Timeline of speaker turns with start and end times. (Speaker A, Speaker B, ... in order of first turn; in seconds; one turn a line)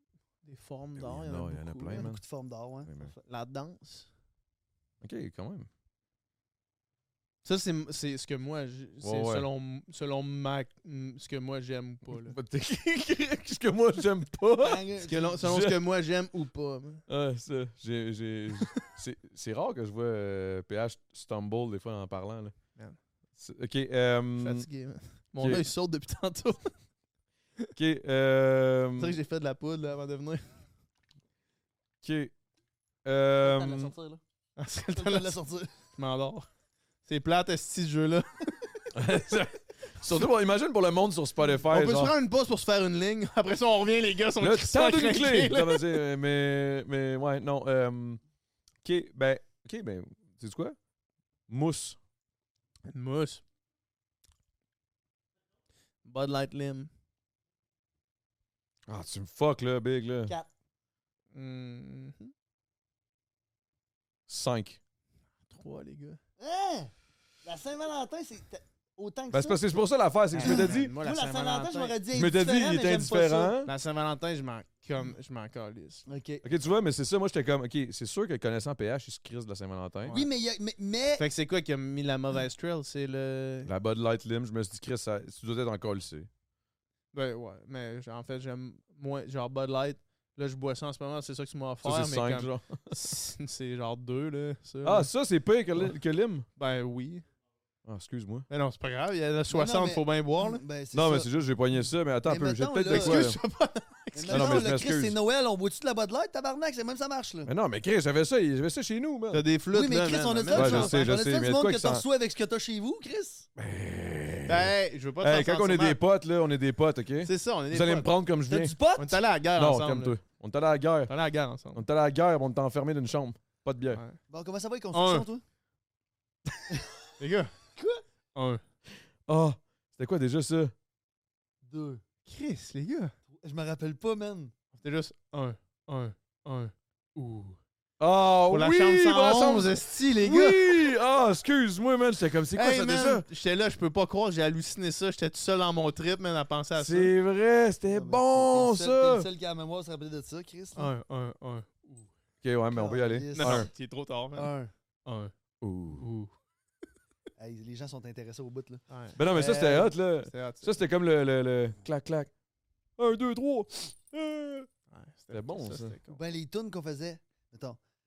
Speaker A: 0.4-2.1
Speaker B: 1.0-2.2
Speaker C: 1.9-3.2
Speaker B: 2.9-3.1
Speaker A: 3.2-4.1
Speaker B: 5.0-5.7
Speaker A: 7.4-12.4
Speaker B: 9.0-9.4
Speaker B: 12.1-14.8
Speaker C: 14.6-15.4
Speaker A: 15.0-17.0
Speaker B: 15.4-15.8
Speaker B: 17.1-22.5
Speaker B: 23.4-24.7
Speaker A: 24.4-26.8
Speaker B: 25.4-25.7
Speaker B: 27.8-29.2
Speaker A: 29.0-30.5
Speaker B: 32.0-32.3
Speaker B: 33.0-33.9
Speaker C: 33.4-34.2
Speaker A: 34.6-35.4
Speaker C: 34.9-35.7
Speaker A: 35.9-36.5
Speaker A: 37.0-38.8
Speaker B: 38.9-42.1
Speaker A: 41.7-46.0
Speaker B: 44.4-48.2
Speaker B: 48.8-50.8
Speaker B: 51.5-52.0
Speaker A: 52.9-53.4
Speaker A: 56.0-56.9
Speaker B: 58.9-60.3
Speaker A: 61.3-62.3
Speaker B: 64.3-64.8
Speaker A: 65.5-66.2
Speaker C: 66.4-66.9
Speaker C: 67.4-69.6
Speaker B: 69.3-70.9
Speaker A: 70.3-72.0
Speaker C: 70.4-73.5
Speaker B: 72.1-73.7
Speaker A: 73.6-76.0
Speaker C: 76.1-76.4
Speaker B: 76.4-80.2
Speaker A: 80.0-80.3
Speaker C: 80.1-81.2
Speaker A: 81.2-83.7
Speaker B: 83.7-86.3
Speaker A: 87.1-95.1
Speaker B: 91.8-92.9
Speaker B: 94.8-96.5
Speaker A: 96.5-97.2
Speaker B: 97.8-98.5
Speaker A: 98.5-100.6
Speaker C: 99.5-101.3
Speaker B: 100.9-103.4
Speaker C: 102.2-103.3
Speaker A: 102.8-104.7
Speaker C: 104.1-107.5
Speaker B: 104.3-105.2
Speaker B: 107.5-109.4
Speaker A: 109.3-111.0
Speaker C: 109.7-113.5
Speaker B: 110.5-112.0
Speaker B: 113.6-118.8
Speaker A: 114.5-116.0
Speaker A: 117.2-118.1
Speaker C: 118.5-119.2
Speaker A: 119.0-120.2
Speaker B: 119.5-121.1
Speaker A: 121.1-121.8
Speaker B: 121.7-124.0
Speaker A: 123.9-124.2
Speaker C: 124.3-125.4
Speaker A: 124.9-125.3
Speaker A: 127.2-127.5
Speaker C: 127.8-128.0
Speaker A: 128.3-128.6
Speaker B: 129.2-130.7
Speaker C: 131.6-132.0
Speaker A: 132.2-133.1
Speaker C: 133.4-134.5
Speaker A: 134.8-137.6
Speaker B: 138.0-143.2
Speaker A: 138.5-140.7
Speaker A: 142.5-147.1
Speaker B: 146.8-149.3
Speaker C: 147.9-150.9
Speaker A: 150.7-152.1
Speaker B: 152.4-153.7
Speaker C: 152.7-153.7
Speaker A: 153.3-154.5
Speaker C: 154.3-154.7
Speaker A: 155.0-155.3
Speaker B: 155.6-156.1
Speaker A: 155.9-156.3
Speaker C: 157.4-159.9
Speaker A: 158.9-159.2
Speaker B: 159.2-162.3
Speaker A: 160.2-160.8
Speaker B: 163.0-164.7
Speaker A: 164.9-166.2
Speaker B: 165.3-165.9
Speaker C: 166.1-167.8